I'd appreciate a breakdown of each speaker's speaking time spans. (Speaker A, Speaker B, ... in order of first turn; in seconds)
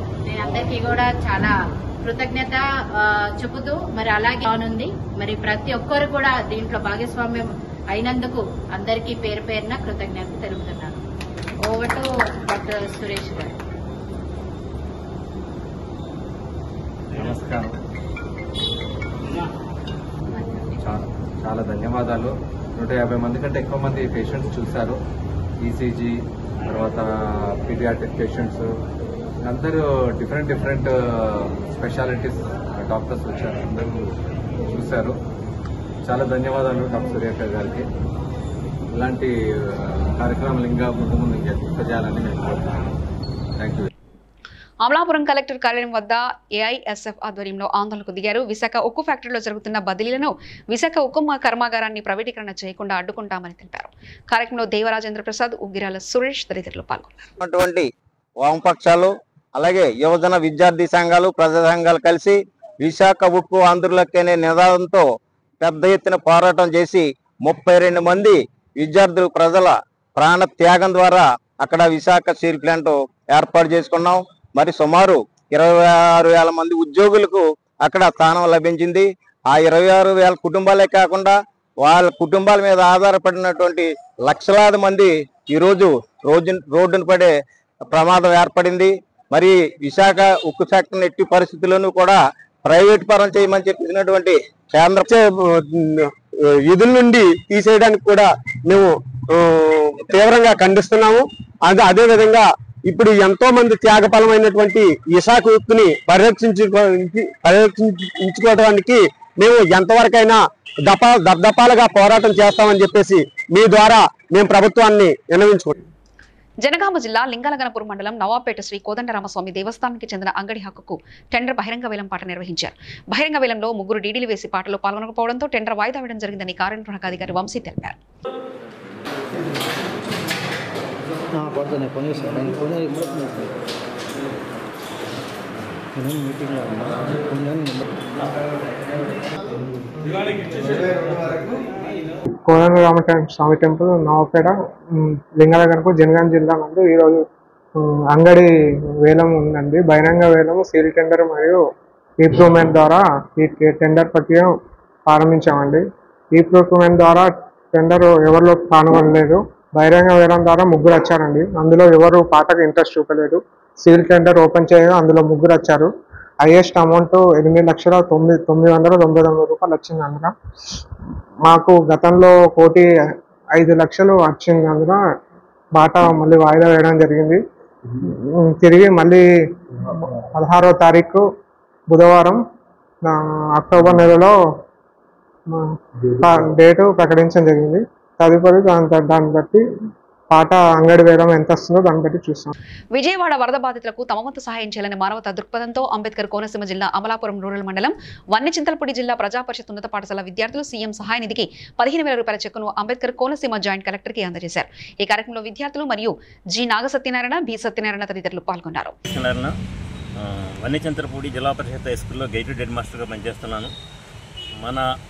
Speaker A: 0.2-11.0, 11.6-13.6, 20.3-20.9
Speaker B: 17.2-17.7, 21.5-25.0, 25.6-26.1, 26.7-27.0, 27.7-28.6, 29.5-34.1, 34.7-35.1, 36.1-37.8, 39.0-39.3, 40.0-42.7
Speaker C: 44.8-57.3, 116.6-128.0, 192.9-209.0
Speaker D: 57.4-57.9, 58.4-65.0, 65.6-87.3, 87.9-95.1
Speaker E: 95.1-96.1, 96.7-115.8
Speaker F: 131.3-133.5, 135.9-138.0
Speaker G: 142.5-147.2, 147.8-148.5, 149.0-151.6, 152.2-154.5, 155.1-155.8, 156.3-165.9, 166.4-170.3, 171.5-172.9, 173.6-175.0, 175.8-177.4, 178.3-179.2, 179.9-181.2, 181.9-182.4, 183.0-184.3, 185.5-189.6, 190.3-192.5
Speaker H: 209.1-209.6, 210.2-213.7, 214.6-214.9